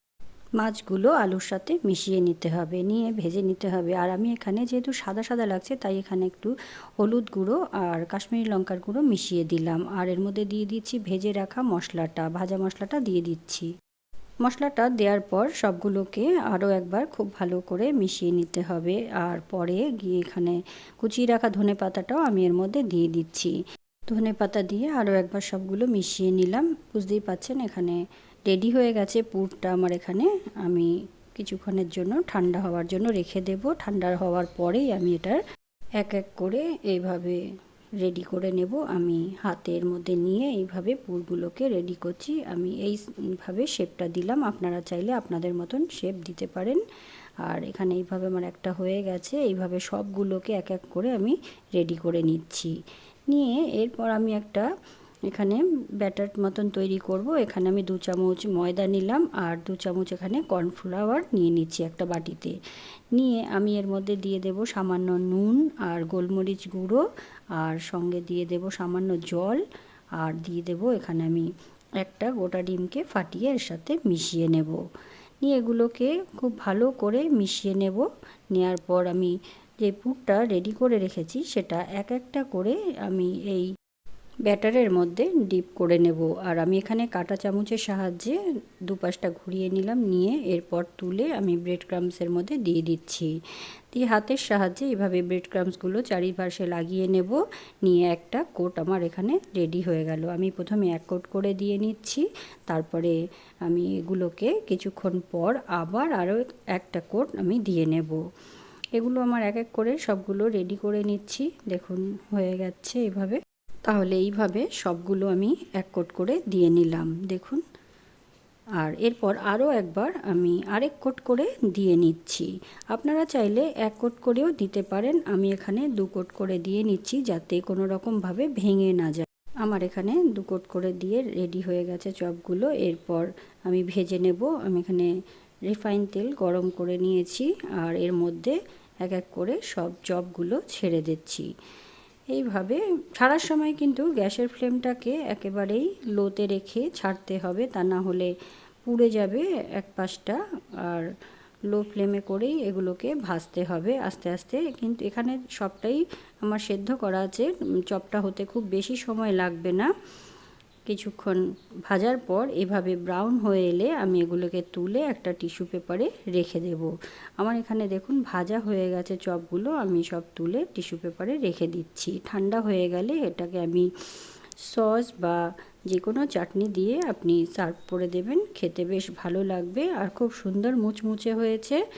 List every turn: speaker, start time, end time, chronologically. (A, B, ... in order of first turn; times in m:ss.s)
0:00.6-0:13.7 A
0:14.4-0:23.5 A
0:24.1-0:28.0 A
0:28.5-0:35.4 A
0:36.0-0:37.4 A
0:38.0-0:46.8 A
0:47.4-0:52.7 A
0:53.3-0:54.6 A
0:55.3-1:02.5 A
1:03.1-1:07.0 A
1:07.6-1:09.6 A
1:10.2-1:11.5 A
1:12.0-1:14.8 A
1:15.4-1:19.3 A
1:19.8-1:23.7 A
1:24.4-1:28.4 A
1:28.9-1:33.3 A
1:33.9-1:43.1 A
1:43.7-1:48.2 A
1:49.0-1:57.6 A
1:58.8-2:15.1 A
2:15.7-2:21.4 A
2:22.3-2:28.3 A
2:28.8-2:31.1 A
2:31.7-2:39.9 A
2:40.9-2:53.9 A
2:54.7-2:55.4 A
2:55.9-3:01.8 A